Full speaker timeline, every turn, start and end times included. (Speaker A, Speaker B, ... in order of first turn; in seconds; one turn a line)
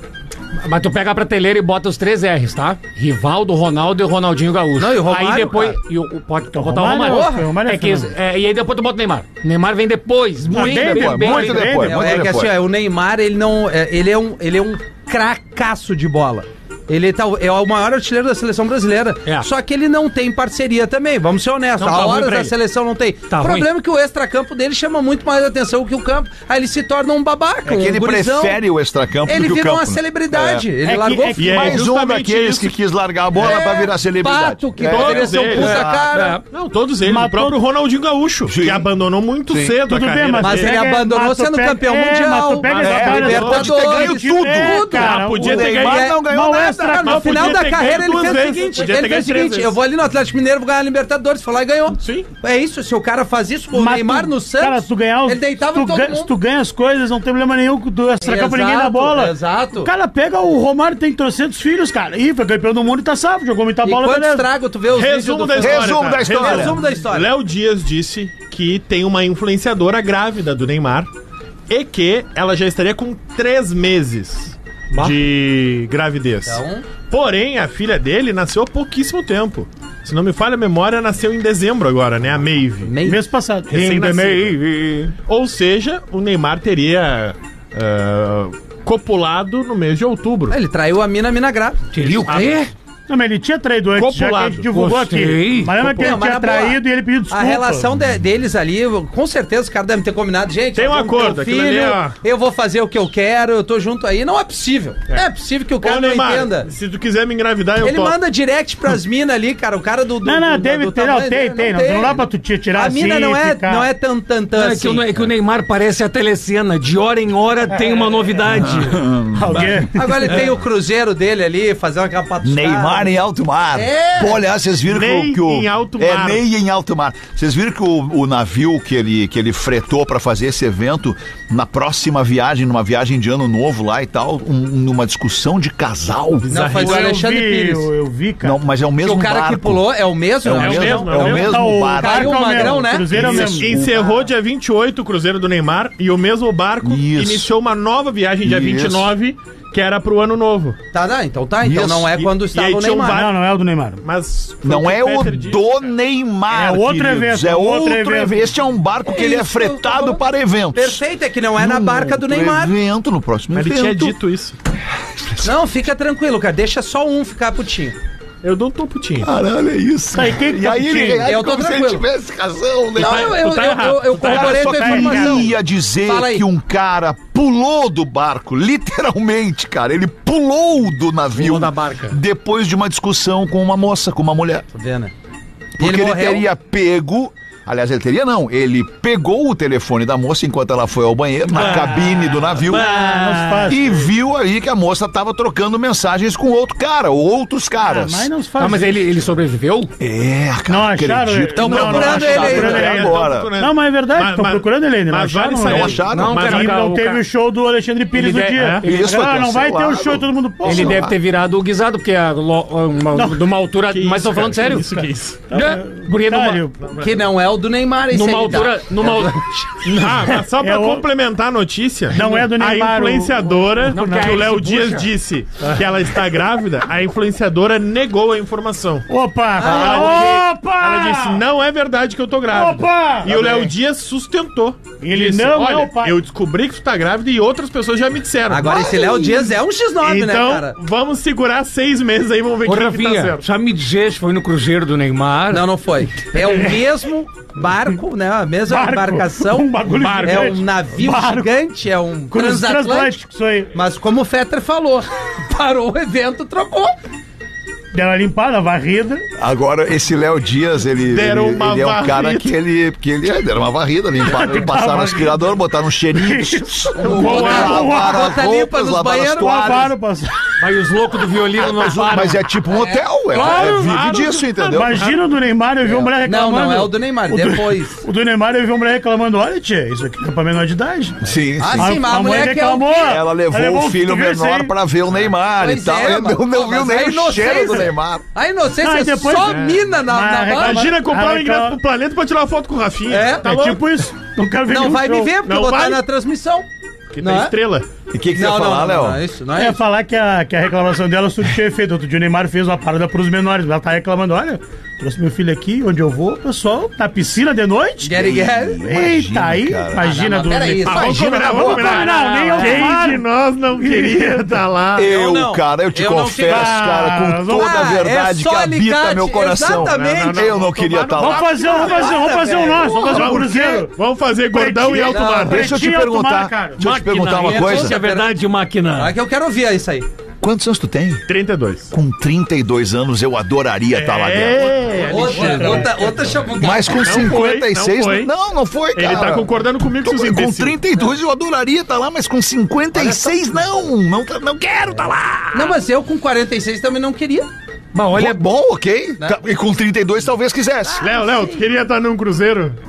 Speaker A: 0.6-11.8
Speaker B: 4.8-5.8
Speaker C: 6.5-8.1
Speaker B: 7.0-7.5
Speaker D: 10.4-12.6
Speaker C: 10.5-12.2
Speaker B: 11.7-28.6
Speaker A: 21.8-22.5
Speaker A: 23.3-23.7
Speaker D: 27.7-30.7
Speaker B: 29.2-31.6
Speaker C: 30.8-31.9
Speaker E: 31.4-32.8
Speaker D: 31.5-36.1
Speaker B: 33.4-36.4
Speaker E: 34.8-35.9
Speaker A: 35.6-36.4
Speaker E: 36.5-40.8
Speaker C: 37.0-37.6
Speaker D: 38.5-38.9
Speaker D: 39.5-39.8
Speaker C: 39.9-47.6
Speaker B: 40.4-56.3
Speaker E: 42.7-43.7
Speaker D: 42.7-47.2
Speaker E: 44.9-46.0
Speaker E: 47.0-49.8
Speaker E: 52.0-52.3
Speaker C: 53.7-64.5
Speaker B: 58.2-59.9
Speaker B: 63.8-67.3
Speaker E: 64.9-71.1
Speaker D: 65.6-66.8
Speaker E: 71.7-82.9
Speaker A: 74.9-75.2
Speaker B: 76.5-76.8
Speaker B: 82.8-83.2
Speaker C: 83.0-84.1
Speaker E: 83.7-84.6
Speaker A: 83.9-85.1
Speaker E: 85.3-90.6
Speaker B: 90.5-92.5
Speaker A: 91.9-92.7
Speaker E: 92.3-92.5
Speaker C: 93.1-97.9
Speaker E: 94.0-94.7
Speaker A: 94.7-95.8
Speaker E: 95.8-96.2
Speaker B: 96.0-106.7
Speaker E: 100.8-102.2
Speaker E: 105.8-108.2
Speaker B: 107.8-115.2
Speaker C: 110.2-113.9
Speaker A: 114.5-119.0
Speaker C: 117.8-118.0
Speaker D: 118.5-119.9
Speaker C: 119.3-120.5
Speaker B: 120.0-123.1
Speaker D: 122.4-136.5
Speaker B: 123.7-124.4
Speaker E: 124.9-126.4
Speaker E: 136.4-137.2
Speaker B: 136.5-137.9
Speaker C: 136.8-138.6
Speaker D: 138.4-139.9
Speaker B: 139.0-143.4
Speaker D: 140.4-144.1
Speaker E: 140.5-141.7
Speaker C: 141.1-143.7
Speaker E: 143.1-150.8
Speaker D: 146.8-147.5
Speaker D: 148.4-149.1
Speaker B: 150.9-153.2
Speaker D: 151.6-152.1
Speaker E: 152.2-153.4
Speaker C: 153.1-154.1
Speaker E: 154.0-155.8
Speaker D: 154.6-161.0
Speaker C: 156.5-158.4
Speaker B: 159.0-160.2
Speaker B: 160.7-162.8
Speaker D: 161.6-164.2
Speaker E: 163.5-164.6
Speaker D: 165.2-165.5
Speaker B: 165.4-168.0
Speaker E: 168.4-169.3
Speaker D: 169.2-173.4
Speaker C: 170.1-171.3
Speaker B: 171.2-172.0
Speaker B: 173.0-175.5
Speaker E: 173.0-174.8
Speaker D: 174.2-184.7
Speaker C: 174.3-175.5
Speaker B: 176.1-176.5
Speaker A: 181.3-182.2
Speaker B: 184.7-185.1
Speaker D: 185.8-192.9
Speaker B: 185.8-186.5
Speaker A: 191.6-193.8
Speaker C: 192.7-193.9
Speaker D: 193.7-198.3
Speaker C: 197.8-199.1
Speaker A: 198.6-199.9
Speaker D: 200.0-203.5
Speaker C: 200.7-211.1
Speaker B: 201.5-203.1
Speaker E: 201.7-206.9
Speaker D: 205.6-206.6
Speaker A: 206.1-207.2
Speaker A: 208.1-209.2
Speaker E: 208.6-208.9
Speaker D: 208.8-211.2
Speaker A: 210.6-216.7
Speaker C: 213.2-213.4
Speaker E: 213.9-215.4
Speaker C: 215.5-216.8
Speaker B: 217.0-219.9
Speaker A: 218.1-219.4
Speaker E: 219.8-229.1
Speaker C: 220.6-221.0
Speaker C: 222.1-224.3
Speaker A: 223.9-225.1
Speaker C: 229.1-231.4
Speaker E: 229.6-239.4
Speaker B: 229.6-230.3
Speaker C: 232.5-233.7
Speaker C: 235.0-236.2
Speaker B: 238.5-240.8
Speaker E: 240.0-243.4
Speaker A: 242.7-245.7
Speaker B: 245.5-253.2
Speaker A: 246.3-246.7
Speaker C: 248.7-251.5
Speaker E: 249.9-250.6
Speaker C: 252.3-253.7
Speaker B: 253.7-256.9
Speaker C: 257.9-259.3
Speaker D: 259.4-269.8
Speaker E: 261.1-262.6
Speaker C: 264.2-265.5
Speaker C: 266.1-268.4
Speaker B: 267.0-269.9
Speaker E: 267.1-267.9
Speaker C: 269.4-270.5
Speaker A: 270.6-272.4
Speaker D: 271.6-275.1
Speaker B: 272.7-273.3
Speaker C: 273.3-274.0
Speaker E: 273.3-275.2
Speaker C: 274.8-284.7
Speaker B: 276.2-278.0
Speaker D: 281.2-282.5
Speaker B: 281.6-283.2
Speaker D: 283.0-288.2
Speaker B: 285.6-290.9
Speaker C: 288.8-291.8
Speaker E: 289.3-289.9
Speaker E: 290.6-294.1
Speaker B: 293.1-293.5
Speaker C: 293.4-295.3
Speaker B: 294.7-296.7
Speaker E: 295.5-296.0
Speaker E: 297.1-297.9
Speaker B: 297.2-297.5
Speaker D: 298.1-299.2
Speaker B: 298.3-299.8
Speaker C: 299.6-313.2
Speaker B: 308.0-308.8
Speaker D: 308.1-310.2
Speaker B: 310.0-312.0
Speaker E: 310.9-315.1
Speaker D: 311.1-312.1
Speaker C: 313.8-314.6
Speaker D: 314.9-321.6
Speaker B: 315.0-316.9
Speaker C: 316.5-317.9
Speaker B: 317.5-320.5
Speaker E: 319.7-321.9
Speaker C: 321.2-323.9
Speaker B: 321.4-323.4
Speaker E: 322.8-325.7
Speaker C: 324.5-326.8
Speaker B: 325.0-325.5
Speaker D: 325.4-328.0
Speaker A: 326.8-329.1
Speaker B: 327.4-328.3
Speaker B: 328.9-330.1
Speaker D: 330.4-331.2
Speaker E: 331.3-331.9
Speaker D: 331.9-334.9
Speaker E: 333.9-336.0
Speaker B: 335.1-337.3
Speaker C: 335.2-336.0
Speaker D: 336.6-339.5
Speaker E: 337.0-338.3
Speaker E: 338.9-340.8
Speaker D: 340.0-345.8
Speaker B: 342.9-343.4
Speaker B: 345.5-347.5
Speaker A: 347.9-348.4
Speaker D: 348.1-351.0
Speaker B: 350.9-351.6
Speaker E: 351.0-352.8